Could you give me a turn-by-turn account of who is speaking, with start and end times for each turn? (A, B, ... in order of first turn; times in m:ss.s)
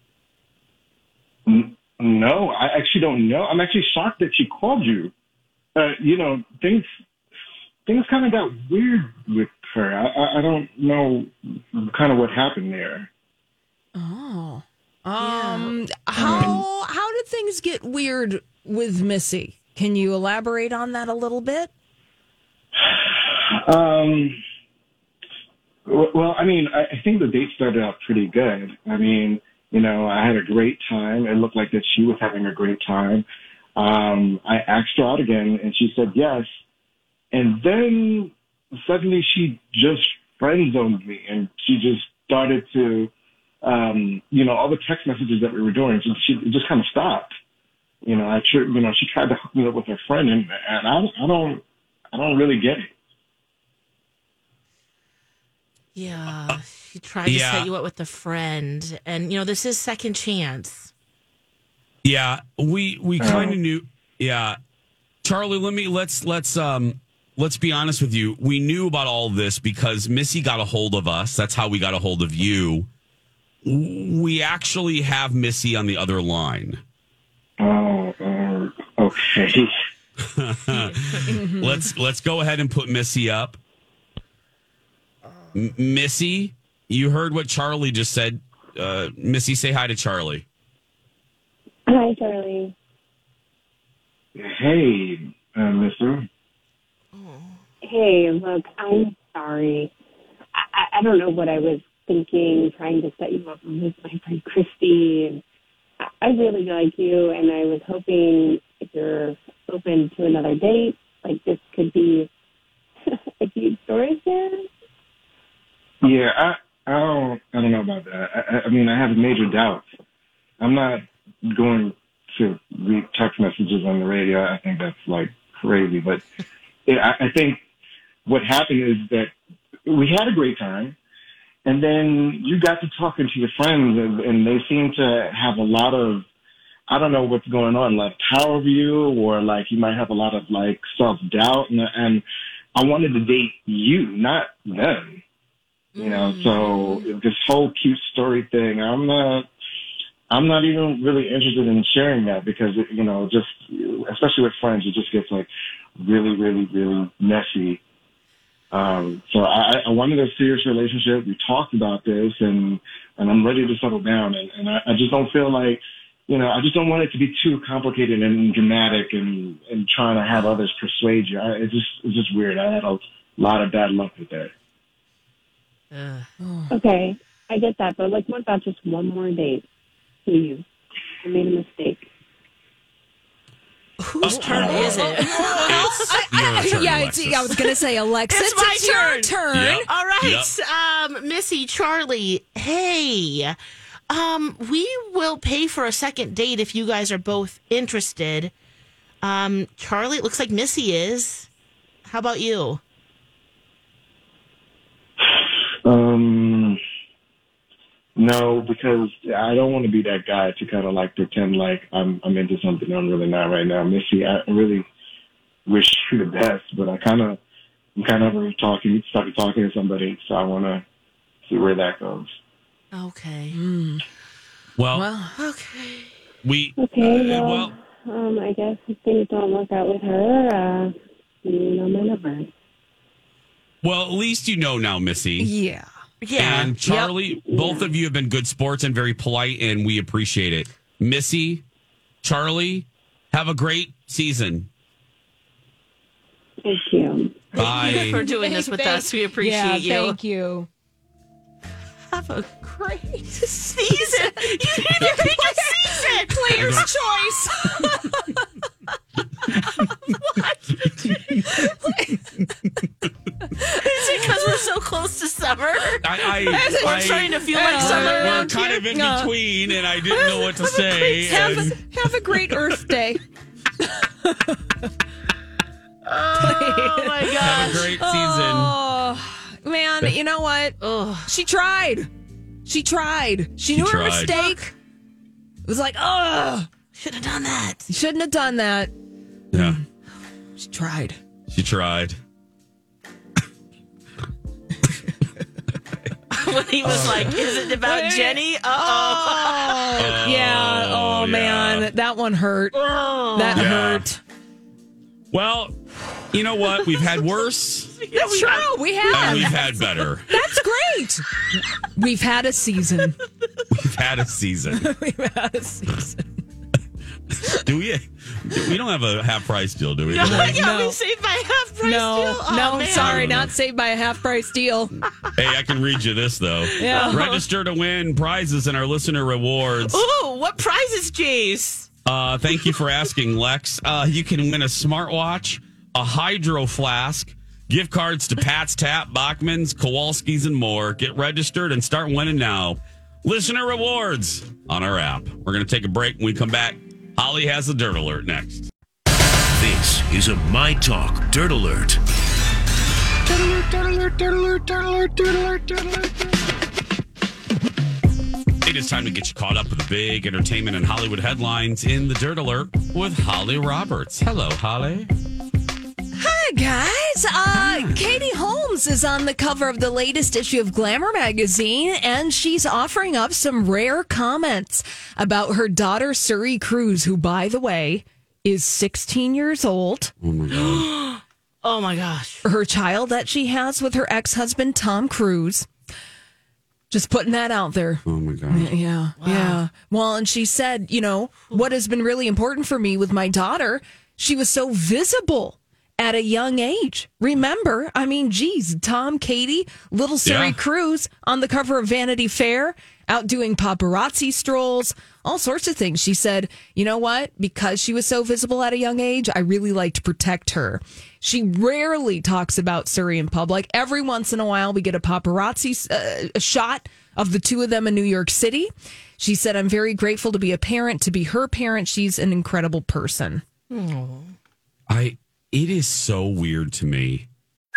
0:01.5-0:05.1 A
0:05.8-0:06.9 A
0:07.9-0:13.1 A
0:14.0-0:21.7 B
0:15.2-0:15.8 C
0:16.2-0:16.6 A
0:22.9-0:24.4 A
0:25.9-0:33.2 A
0:33.8-0:36.5 A
0:37.3-0:43.1 A
0:43.6-0:47.3 A
0:48.0-0:52.9 A
0:56.0-1:00.9 C
0:57.2-0:57.7 D
1:02.0-1:04.6 D
1:03.2-1:03.6 A
1:05.2-1:12.9 D
1:13.6-1:16.8 D
1:17.6-1:19.7 A
1:20.2-1:23.6 D
1:20.8-1:21.2 C
1:21.4-1:21.8 B
1:25.5-1:30.4 D
1:31.9-1:32.7 E
1:34.4-1:36.3 A
1:37.1-1:37.6 C
1:37.8-1:39.9 E
1:40.6-1:45.4 E
1:46.2-1:52.3 E
1:53.1-1:54.7 E
1:56.0-1:59.8 A
2:00.6-2:06.2 A
2:06.9-2:07.6 A
2:08.3-2:09.3 A
2:09.9-2:11.0 A
2:11.6-2:16.3 A
2:16.9-2:22.2 A
2:22.8-2:25.2 A
2:26.0-2:27.1 C
2:26.0-2:29.5 A
2:30.3-2:35.5 A
2:36.0-2:37.8 A
2:38.7-2:54.5 A
2:55.9-2:56.3 C
2:56.4-2:56.7 B
2:56.7-2:59.6 E
3:00.3-3:00.6 E
3:01.2-3:02.1 E
3:04.1-3:09.9 B
3:04.2-3:06.1 C
3:04.2-3:07.6 D
3:08.3-3:13.6 C
3:09.5-3:10.5 D
3:14.1-3:18.5 C
3:19.2-3:21.5 C
3:22.1-3:22.8 C
3:25.8-3:26.8 A
3:28.2-3:34.9 A
3:35.7-3:37.4 A
3:38.0-3:40.8 A
3:41.5-3:42.4 A
3:42.9-3:43.6 C
3:43.5-3:44.0 B
3:44.8-3:45.1 D
3:44.9-3:45.4 B
3:45.4-3:46.2 C
3:46.4-3:47.7 D
3:46.8-3:52.5 E
3:53.8-3:55.5 D
3:55.4-3:55.9 B
3:56.2-3:56.7 C
3:56.4-4:01.6 D
3:56.8-3:57.1 B
3:57.5-3:57.8 E
4:02.2-4:04.7 D
4:06.6-4:07.5 E
4:07.6-4:08.2 D
4:07.6-4:10.2 C
4:07.6-4:10.7 B
4:12.1-4:16.9 C
4:13.4-4:18.4 B
4:16.5-4:16.9 D
4:20.2-4:21.4 C
4:21.5-4:22.2 B
4:23.6-4:24.6 B
4:23.7-4:28.6 C
4:26.0-4:32.8 D
4:26.5-4:29.4 B
4:30.1-4:33.2 B
4:33.9-4:34.9 B
4:36.1-4:37.9 C
4:36.4-4:42.1 B
4:37.4-4:38.8 D
4:40.8-4:41.4 C
4:42.6-4:44.7 B
4:43.7-4:44.4 D
4:44.3-4:44.7 C
4:45.7-4:46.7 B
4:47.0-4:47.8 C
4:47.9-4:48.9 B
4:49.5-4:49.8 D
4:49.5-4:49.8 B
4:50.6-4:51.2 B
4:51.5-4:52.2 D
4:56.3-5:00.0 C
4:56.8-4:57.3 D
4:57.8-5:02.8 B
5:00.0-5:01.9 D
5:02.7-5:03.7 C
5:03.3-5:04.2 B
5:03.5-5:04.1 D
5:05.3-5:05.8 D
5:06.3-5:08.0 D
5:06.8-5:07.4 C
5:08.0-5:09.8 C
5:08.1-5:09.6 B
5:09.1-5:10.3 D
5:10.3-5:11.3 B
5:12.0-5:13.2 B
5:13.7-5:14.9 D
5:14.8-5:16.3 B
5:17.4-5:20.7 D
5:20.1-5:23.4 C
5:20.2-5:21.0 B
5:21.8-5:25.0 B
5:22.9-5:23.5 D
5:25.4-5:30.0 D
5:26.7-5:27.4 C
5:26.8-5:27.2 B
5:29.8-5:31.9 C
5:32.0-5:48.7 D
5:49.6-5:52.0 F
5:58.6-6:05.1 D
6:06.2-6:20.1 B
6:07.5-6:08.2 D
6:20.2-6:20.9 D
6:20.5-6:22.4 C
6:22.4-6:25.7 B
6:26.9-7:03.4 B
6:28.0-6:28.7 D
6:29.2-6:29.6 C
6:40.2-6:40.6 D
7:03.7-7:04.4 C
7:04.9-7:07.3 D